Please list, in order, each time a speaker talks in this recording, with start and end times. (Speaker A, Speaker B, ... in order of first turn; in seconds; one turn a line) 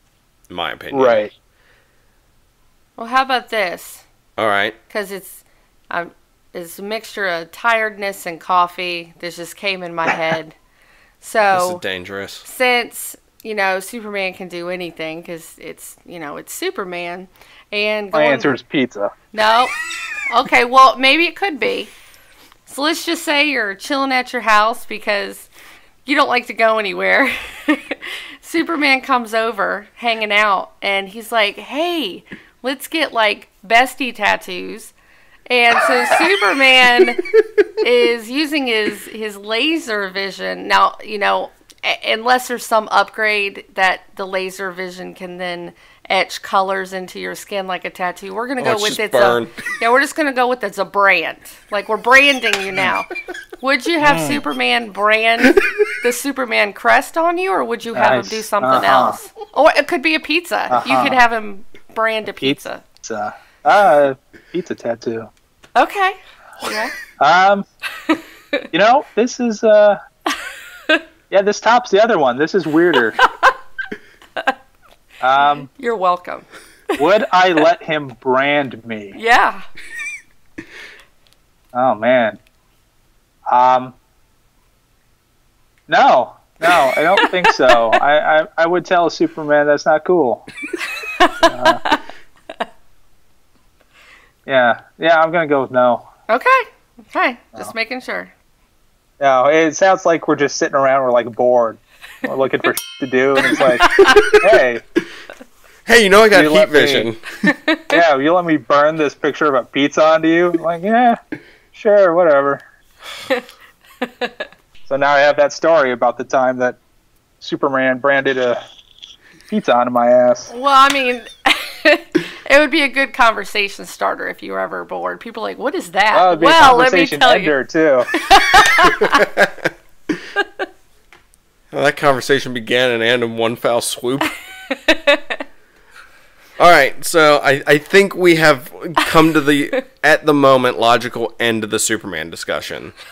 Speaker A: 0.5-1.2
Speaker B: 0.9-1.3
Speaker C: 3.0-4.0
Speaker A: 4.4-4.8
Speaker C: 4.9-10.5
Speaker C: 11.2-11.8
Speaker A: 11.5-12.4
Speaker C: 12.4-18.5
Speaker B: 18.1-19.1
Speaker C: 19.3-19.7
Speaker C: 20.3-21.9
Speaker C: 22.7-25.5
Speaker C: 26.0-34.9
Speaker C: 35.5-37.2
Speaker C: 37.8-62.8
Speaker A: 48.6-49.6
Speaker B: 54.0-54.4
Speaker B: 57.9-59.2
Speaker B: 60.7-61.2
Speaker B: 62.4-65.3
Speaker C: 65.8-66.9
Speaker B: 67.2-67.6
Speaker B: 68.7-70.0
Speaker B: 71.3-73.2
Speaker C: 73.2-73.5
Speaker B: 75.2-75.7
Speaker C: 75.3-76.9
Speaker B: 77.0-79.2
Speaker C: 79.1-79.6
Speaker B: 81.7-82.4
Speaker B: 83.5-83.9
Speaker B: 85.9-90.5
Speaker C: 91.0-92.0
Speaker B: 91.4-91.8
Speaker B: 94.5-96.1
Speaker C: 96.3-98.3
Speaker B: 99.2-104.8
Speaker C: 103.5-104.2
Speaker A: 105.8-107.2
Speaker B: 106.3-107.1
Speaker C: 107.5-107.8
Speaker B: 107.9-111.2
Speaker B: 111.7-112.6
Speaker C: 114.0-114.4
Speaker B: 114.9-116.8
Speaker B: 117.4-118.6
Speaker B: 119.5-120.5
Speaker C: 120.5-127.5
Speaker B: 126.1-128.1
Speaker C: 128.1-129.2
Speaker A: 129.0-129.7
Speaker A: 131.7-134.3
Speaker C: 134.7-135.4
Speaker A: 136.6-142.9